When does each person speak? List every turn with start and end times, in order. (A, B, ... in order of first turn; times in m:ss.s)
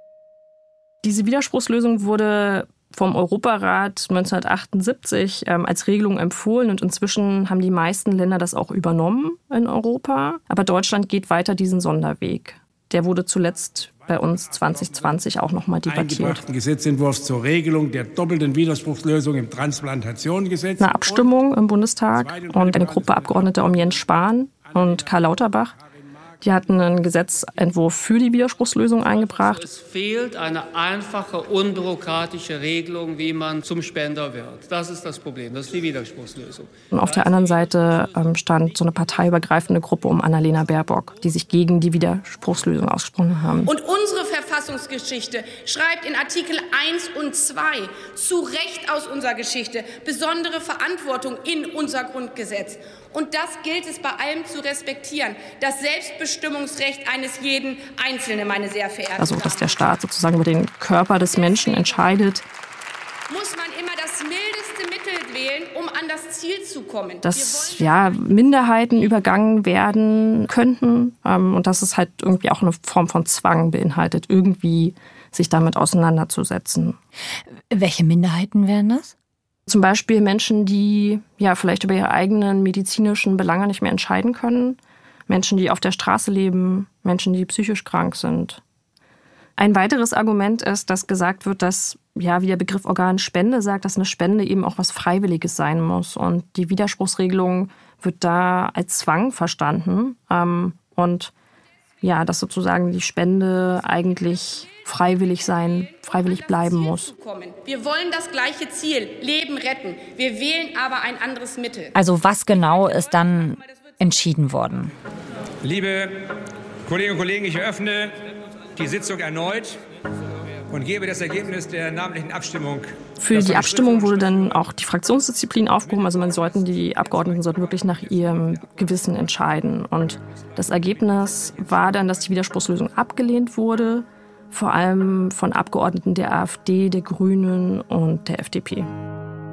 0:01.0-0:16.4 A
0:15.9-0:21.3 B
0:20.8-0:25.8 A
0:22.2-0:23.6 B
0:26.4-0:29.6 A
0:29.1-0:37.6 C
0:36.9-0:43.7 A
0:43.7-0:59.9 D
0:59.2-1:02.4 A
1:01.3-1:02.1 D
1:03.3-1:08.2 D
1:07.2-1:17.0 A
1:17.7-1:19.2 E
1:19.7-1:28.6 A
1:29.6-1:41.3 A
1:42.0-1:47.1 A
1:46.1-1:52.0 D
1:51.9-1:54.9 E
1:55.6-1:56.2 F
1:56.9-1:58.2 F
1:58.8-1:59.8 F
2:00.7-2:04.0 F
2:03.2-2:18.9 A